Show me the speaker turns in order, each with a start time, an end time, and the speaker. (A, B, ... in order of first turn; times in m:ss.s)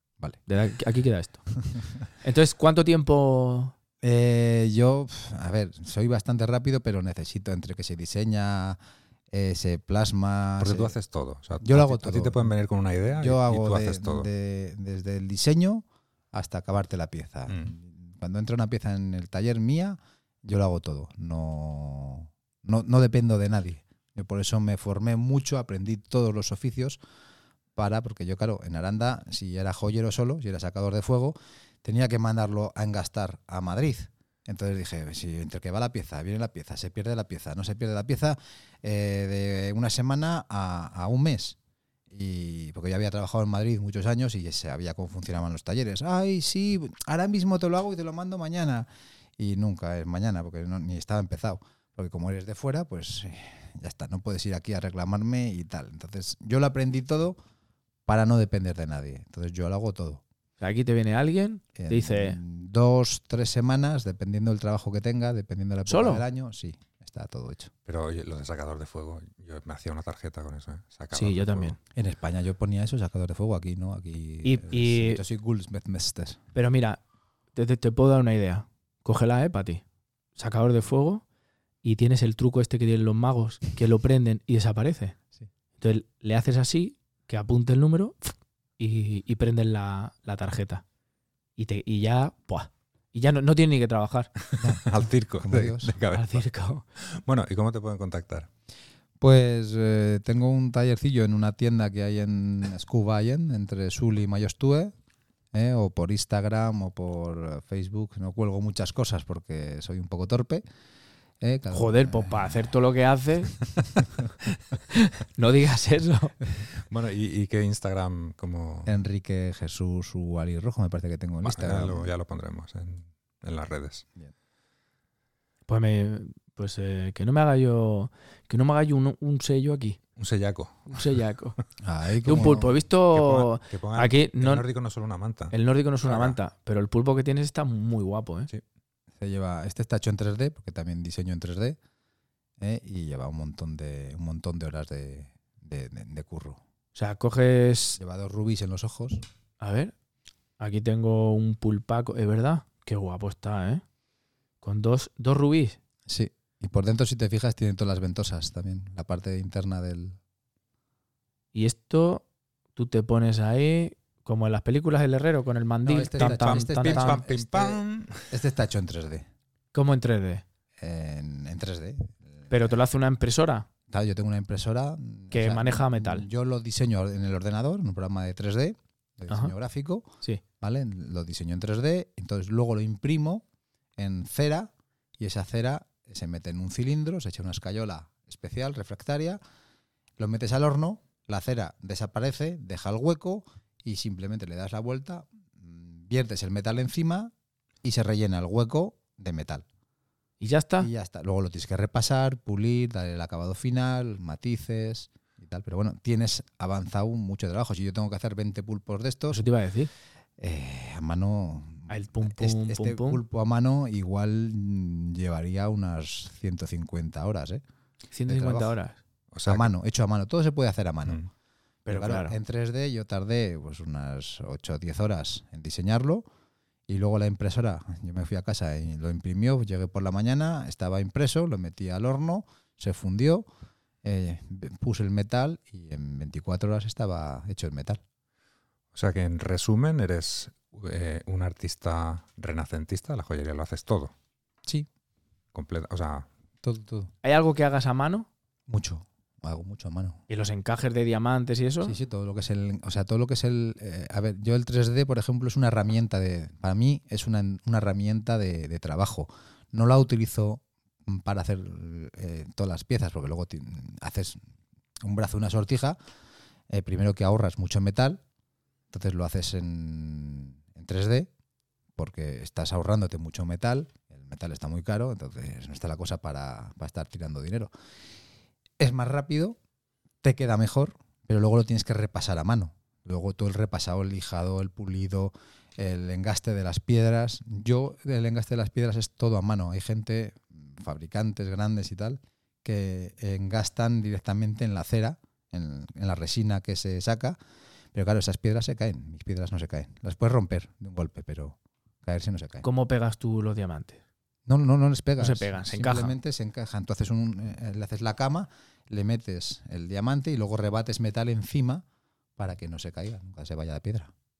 0:00.5-0:01.4 A
0:02.2-0:03.7 A
0:04.0-0:08.8 B
0:09.3-0:10.9 B
0:10.6-0:14.3 C
0:11.6-0:12.5 B
0:13.1-0:27.0 B
0:27.8-0:41.6 B
0:42.1-0:57.4 B
0:58.0-1:00.2 B
1:00.6-1:02.4 A
1:01.7-1:07.7 B
1:05.9-1:06.2 A
1:07.9-1:11.8 C
1:11.1-1:11.8 A
1:11.9-1:16.4 B
1:14.4-1:15.2 A
1:16.5-1:17.0 A
1:17.5-1:19.8 A
1:20.4-1:21.2 A
1:21.8-1:25.2 A
1:25.8-1:30.8 A
1:31.6-1:34.3 A
1:34.5-1:36.4 C
1:34.6-1:36.0 B
1:36.1-1:36.8 A
1:37.1-1:38.5 C
1:39.2-1:44.9 B
1:45.5-1:50.6 B
1:51.4-1:52.6 B
1:51.7-1:53.5 A
1:54.9-1:56.3 A
1:56.9-1:58.9 C
1:58.8-2:02.1 B
2:01.4-2:04.0 C
2:05.7-2:10.0 A
2:10.2-2:11.0 C
2:10.9-2:11.6 A
2:11.8-2:12.7 B
2:12.2-2:14.6 A
2:13.1-2:15.5 C
2:15.5-2:18.5 A
2:16.0-2:16.4 C
2:19.2-2:21.8 B
2:22.6-2:26.6 B
2:26.9-2:28.0 A
2:28.0-2:29.2 B
2:29.6-2:29.9 A
2:30.6-2:33.8 A
2:34.6-2:35.8 A
2:36.1-2:40.2 B
2:41.5-2:42.2 A
2:42.8-2:47.2 A
2:45.8-2:49.3 B
2:46.2-2:48.2 C
2:49.7-2:50.4 A
2:50.8-2:52.7 B
2:52.5-2:53.7 A
2:53.9-3:03.4 B
2:55.3-2:56.3 A
3:04.0-3:09.4 B
3:10.2-3:17.3 B
3:17.8-3:19.6 B
3:20.4-3:20.9 A
3:20.8-3:29.4 B
3:29.3-3:29.9 A
3:30.4-3:37.6 B
3:31.9-3:33.2 A
3:38.1-3:39.0 A
3:38.3-3:38.7 B
3:39.3-3:39.7 C
3:39.4-3:41.2 B
3:41.8-3:42.4 A
3:41.9-3:46.3 B
3:46.9-3:53.5 B
3:54.0-3:58.0 B
3:58.9-4:04.1 C
4:05.5-4:06.3 C
4:06.6-4:07.1 B
4:07.2-4:08.3 A
4:08.7-4:10.2 B
4:10.3-4:11.9 A
4:11.8-4:24.4 B
4:25.0-4:26.0 B
4:26.7-4:28.2 B
4:28.9-4:31.3 B
4:32.0-4:37.7 B
4:38.8-4:39.6 B
4:40.2-4:57.4 B
4:57.9-5:02.6 B
5:02.6-5:04.0 A
5:04.5-5:11.8 B
5:05.2-5:06.2 A
5:12.4-5:14.1 B